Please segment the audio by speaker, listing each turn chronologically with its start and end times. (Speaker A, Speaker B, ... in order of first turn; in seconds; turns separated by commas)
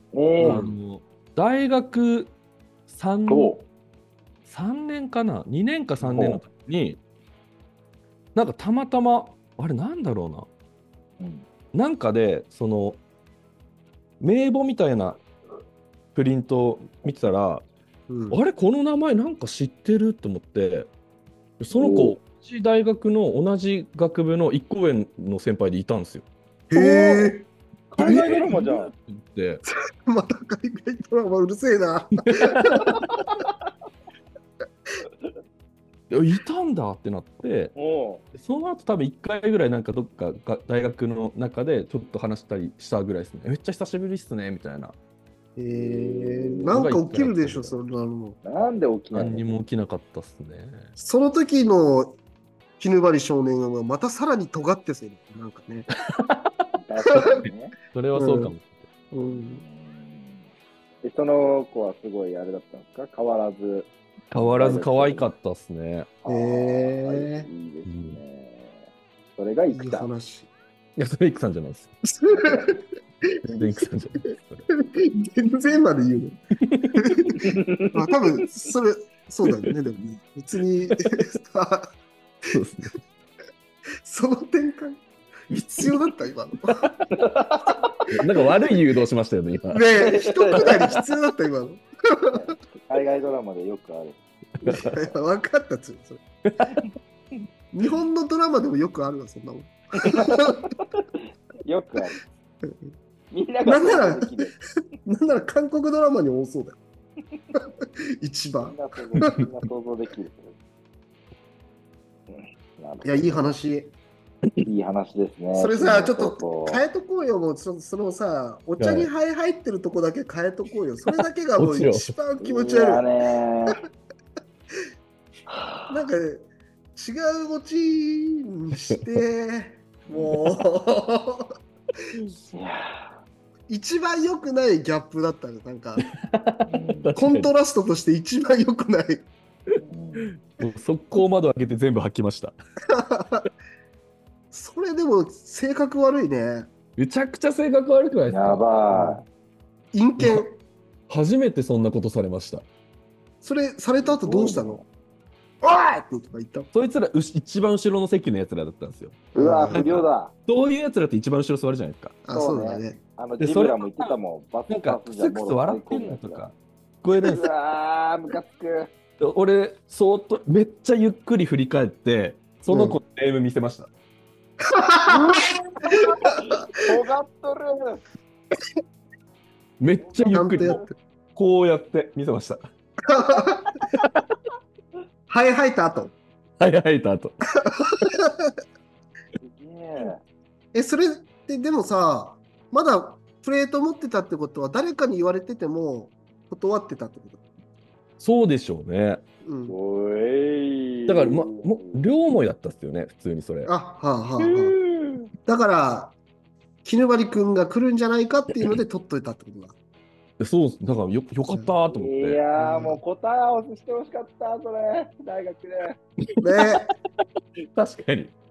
Speaker A: 0.1-0.6, Speaker B: 0.4-2.3, Speaker C: 0.4-0.8, Speaker B: 2.9-3.5, Speaker A: 3.3-3.6, Speaker B: 4.5-7.0, Speaker A: 6.0-6.4, Speaker B: 8.3-10.5, Speaker A: 11.2-11.4, Speaker B: 11.7-13.0, Speaker B: 14.2-15.2, Speaker B: 16.1-17.7, Speaker C: 18.1-18.4, Speaker B: 18.3-20.9, Speaker B: 21.6-26.3, Speaker A: 21.7-22.2, Speaker C: 26.7-28.4, Speaker A: 26.7-27.4, Speaker A: 27.9-28.9, Speaker B: 28.0-29.6, Speaker C: 29.7-32.9, Speaker B: 32.3-33.2, Speaker B: 36.1-37.7, Speaker A: 37.8-38.2, Speaker B: 38.3-45.0, Speaker C: 45.6-48.4, Speaker A: 45.7-46.7, Speaker B: 46.7-47.8, Speaker A: 48.4-49.5, Speaker B: 49.1-50.9, Speaker C: 51.0-52.2, Speaker C: 52.8-55.9, Speaker B: 56.1-56.6, Speaker A: 56.8-57.7, Speaker C: 57.1-57.4, Speaker B: 57.2-58.9, Speaker C: 58.1-58.5, Speaker C: 59.1-59.6, Speaker A: 59.5-60.5, Speaker A: 61.0-65.3, Speaker B: 64.3-66.1, Speaker A: 66.2-68.8, Speaker C: 66.3-67.5, Speaker B: 67.9-68.2, Speaker A: 69.4-70.1, Speaker C: 69.7-70.5, Speaker B: 71.0-71.9, Speaker C: 72.2-72.8, Speaker A: 72.3-72.7, Speaker C: 73.4-73.9, Speaker B: 73.6-74.7, Speaker C: 74.7-76.4, Speaker B: 76.7-77.3, Speaker C: 76.9-81.9, Speaker A: 77.3-78.4, Speaker B: 79.4-79.7, Speaker B: 82.5-83.0, Speaker C: 84.0-86.9, Speaker B: 85.5-85.9, Speaker B: 86.7-87.0, Speaker A: 87.1-88.1, Speaker B: 88.1-89.9, Speaker C: 89.7-92.5, Speaker A: 90.0-90.9, Speaker B: 90.6-91.0, Speaker A: 92.3-94.2, Speaker B: 94.6-95.0, Speaker C: 94.7-96.2, Speaker B: 96.5-96.8, Speaker C: 97.7-100.6, Speaker A: 100.0-101.0, Speaker A: 101.6-102.2, Speaker A: 103.3-104.6, Speaker C: 103.7-104.4, Speaker C: 105.0-106.8, Speaker C: 107.5-109.5, Speaker A: 108.6-110.6, Speaker A: 112.3-113.5, Speaker C: 113.0-113.9, Speaker A: 114.6-116.8, Speaker C: 115.5-123.1, Speaker B: 118.8-119.1, Speaker B: 121.2-122.1, Speaker A: 122.4-123.8, Speaker A: 125.5-125.9, Speaker C: 125.9-131.5, Speaker A: 132.5-133.1, Speaker C: 133.7-136.0, Speaker B: 136.0-137.5, Speaker A: 136.7-137.1, Speaker C: 137.2-139.3, Speaker B: 139.7-142.6, Speaker A: 139.8-140.3, Speaker C: 142.9-143.5, Speaker C: 144.5-146.7, Speaker B: 147.0-149.2, Speaker A: 148.3-149.3, Speaker C: 149.9-150.6, Speaker B: 150.2-150.4, Speaker B: 151.1-152.7, Speaker C: 153.4-154.8, Speaker A: 154.0-154.8, Speaker C: 155.6-156.7, Speaker B: 156.7-159.2, Speaker C: 159.3-159.9, Speaker A: 159.3-160.3, Speaker B: 159.7-162.2, Speaker C: 162.2-163.0, Speaker A: 162.3-166.4, Speaker B: 163.4-164.1, Speaker B: 164.7-167.5, Speaker A: 167.2-168.9, Speaker B: 169.2-173.9, Speaker C: 172.7-173.0, Speaker C: 174.6-175.3, Speaker A: 175.1-178.0, Speaker C: 175.8-176.6, Speaker B: 179.8-180.8, Speaker A: 180.0-180.9, Speaker C: 180.3-180.9, Speaker B: 181.3-182.6, Speaker C: 183.1-183.7, Speaker B: 183.9-184.2, Speaker C: 185.3-186.1, Speaker B: 186.6-187.3, Speaker C: 187.6-188.5, Speaker A: 189.4-190.2, Speaker C: 190.7-197.4, Speaker B: 198.2-199.2, Speaker C: 199.4-199.8, Speaker A: 199.7-202.0, Speaker B: 201.1-203.7, Speaker C: 203.7-204.8, Speaker A: 204.4-205.3, Speaker C: 205.5-206.2, Speaker C: 206.8-209.8, Speaker B: 210.4-212.4, Speaker A: 211.9-216.0, Speaker C: 212.6-213.0, Speaker B: 216.3-216.8, Speaker C: 216.4-216.9, Speaker B: 217.8-218.3